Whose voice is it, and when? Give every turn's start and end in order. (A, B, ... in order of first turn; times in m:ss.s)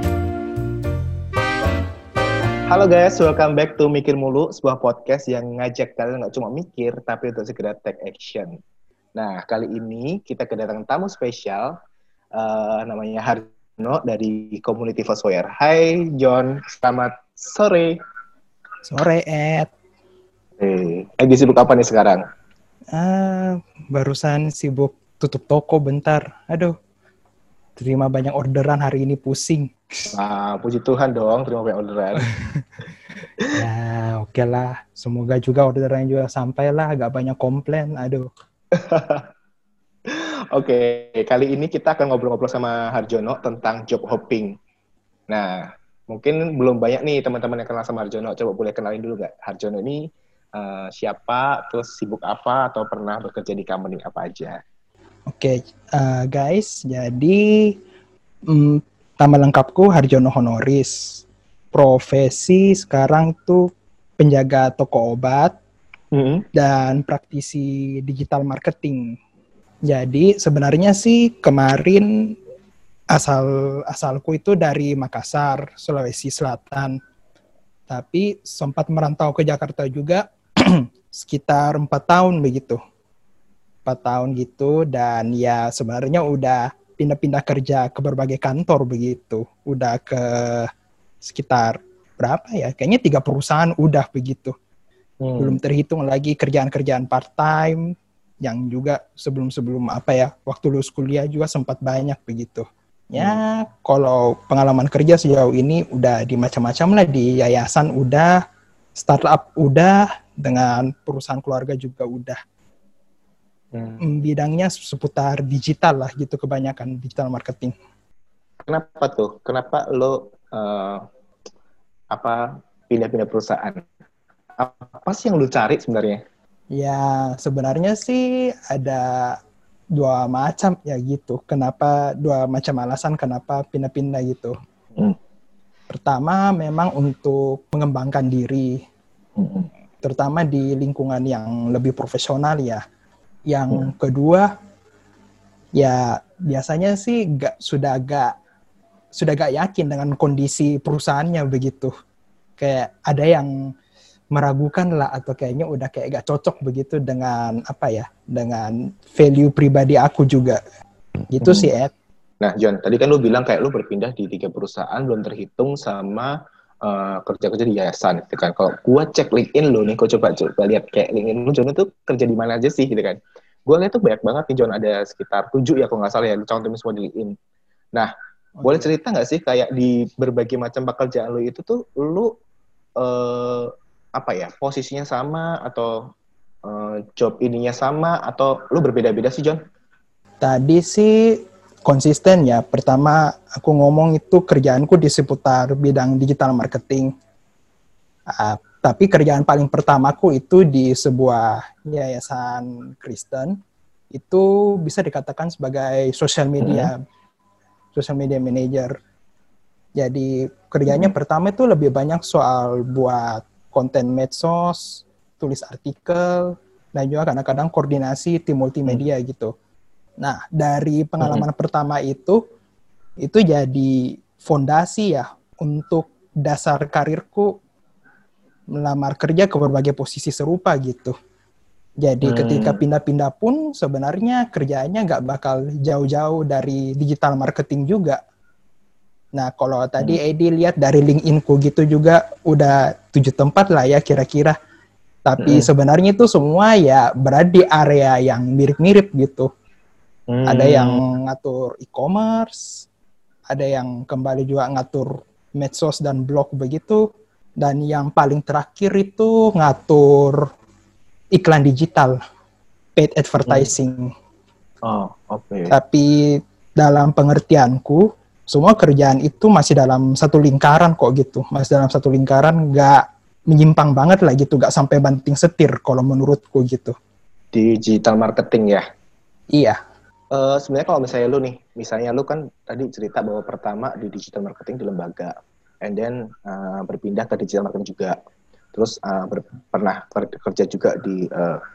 0:02.7-0:08.6 A
0:09.2-0:11.8 A
0:12.4-0:18.0 A
0:18.9-0:19.7 B
0:20.6-0:22.2 A
0:22.9-0:26.8 B
0:27.8-0:30.1 B
0:30.1-0:32.3 A
0:32.2-0:32.6 B
0:33.5-0:38.3 B
0:38.7-0:39.3 A
0:40.1-0:44.6 A
0:45.3-0:50.0 A
0:50.6-0:54.6 A
0:55.3-0:57.7 B
0:58.5-1:01.2 B
1:01.7-1:03.7 B
1:04.2-1:05.6 B
1:06.1-1:06.5 A
1:06.5-1:09.2 B
1:09.9-1:12.3 B
1:13.1-1:17.0 B
1:17.9-1:22.8 B
1:23.9-1:30.7 B
1:31.2-1:34.5 B
1:35.2-1:35.6 A
1:35.4-1:37.9 B
1:38.4-1:48.4 B
1:49.0-1:52.4 B
1:53.7-1:54.0 A
1:54.0-1:57.7 B
1:58.7-2:01.0 A
2:02.1-2:03.8 A
2:04.6-2:06.2 A
2:06.7-2:09.4 B
2:10.0-2:14.6 B
2:15.9-2:18.8 B
2:19.4-2:19.7 A
2:20.0-2:22.8 B
2:23.5-2:24.5 B
2:25.8-2:28.4 B
2:29.2-2:31.9 B
2:32.6-2:33.5 B
2:34.3-2:40.6 B
2:41.3-2:41.9 B
2:41.4-2:41.7 A
2:42.4-2:57.4 A
2:58.6-2:58.9 B
2:58.6-3:02.3 A
3:03.0-3:06.1 A
3:06.6-3:09.6 A
3:10.4-3:17.1 B
3:18.3-3:23.6 B
3:24.1-3:27.0 B
3:26.6-3:26.9 A
3:27.9-3:29.0 B
3:30.0-3:39.5 B
3:40.2-3:42.4 B
3:41.2-3:41.5 A
3:43.2-3:47.5 B
3:48.7-3:51.1 B
3:52.0-3:58.2 B
3:52.2-3:52.8 A
3:59.4-4:04.6 B
4:05.3-4:09.5 B
4:05.4-4:05.7 A
4:10.3-4:11.0 A
4:10.5-4:12.9 B
4:13.5-4:17.1 B
4:17.6-4:20.5 B
4:21.3-4:22.2 B
4:23.0-4:24.1 B
4:24.8-4:25.7 A
4:25.7-4:37.0 B
4:37.5-4:38.8 A
4:39.5-4:39.8 B
4:40.3-4:48.2 A
4:48.7-4:51.6 A